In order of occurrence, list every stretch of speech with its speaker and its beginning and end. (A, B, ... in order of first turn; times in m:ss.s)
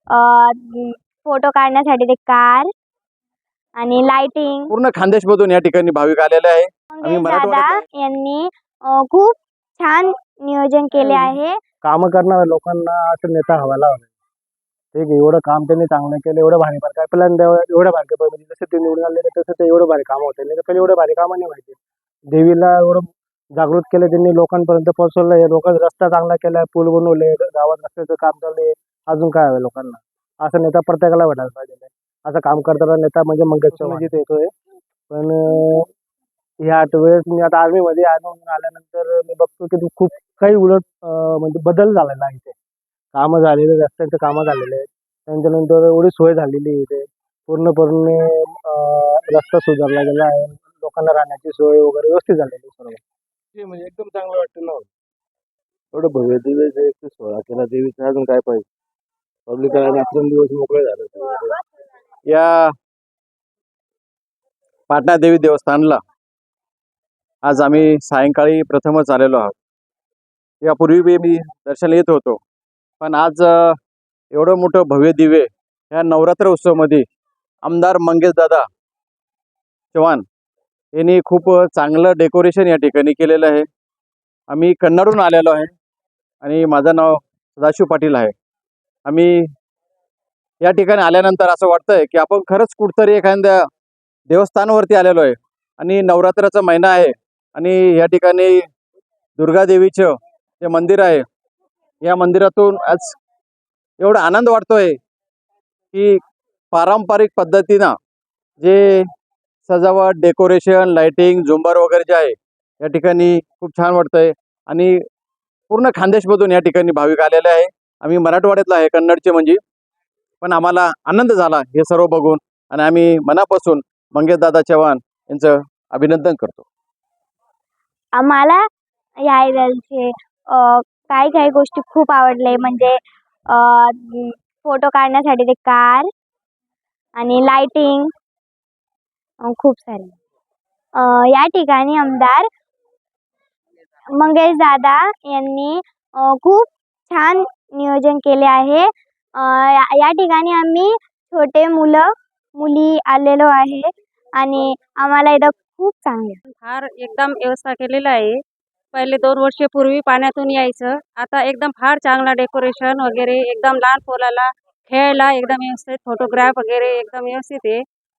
0:00.2-0:02.7 A
0:03.8-0:04.7 A
0:04.7-0:07.8 B
0:06.9-0:11.6 A
0:11.8-0:14.1 C
0:14.9-0:21.8 C
0:22.3-0:34.5 C
0:35.1-0:35.9 C
0:36.6-0:42.6 C
0:43.1-0:53.0 C
0:53.6-0:54.9 D
0:55.9-0:58.7 D
0:59.5-1:01.6 D
1:02.3-1:02.7 B
1:04.9-1:06.0 B
1:07.4-1:09.5 B
1:10.6-1:12.4 B
1:13.0-1:13.7 B
1:14.3-1:17.0 B
1:17.6-1:18.6 B
1:19.9-1:20.2 B
1:21.0-1:23.7 B
1:24.5-1:25.7 B
1:26.4-1:28.3 B
1:29.1-1:29.4 B
1:30.6-1:33.6 B
1:34.3-1:38.6 B
1:39.4-1:41.2 B
1:42.0-1:43.2 B
1:44.0-1:44.9 B
1:45.9-1:46.2 B
1:46.7-1:47.9 B
1:48.6-1:49.0 B
1:49.7-1:55.0 B
1:55.7-1:59.6 B
2:00.4-2:06.6 B
2:08.2-2:08.6 A
2:09.3-2:13.0 A
2:13.5-2:16.1 A
2:17.2-2:18.1 A
2:19.4-2:20.2 A
2:21.0-2:22.4 A
2:24.2-2:32.0 A
2:32.6-2:33.9 A
2:34.4-2:36.4 A
2:36.5-2:38.4 E
2:38.9-2:47.8 E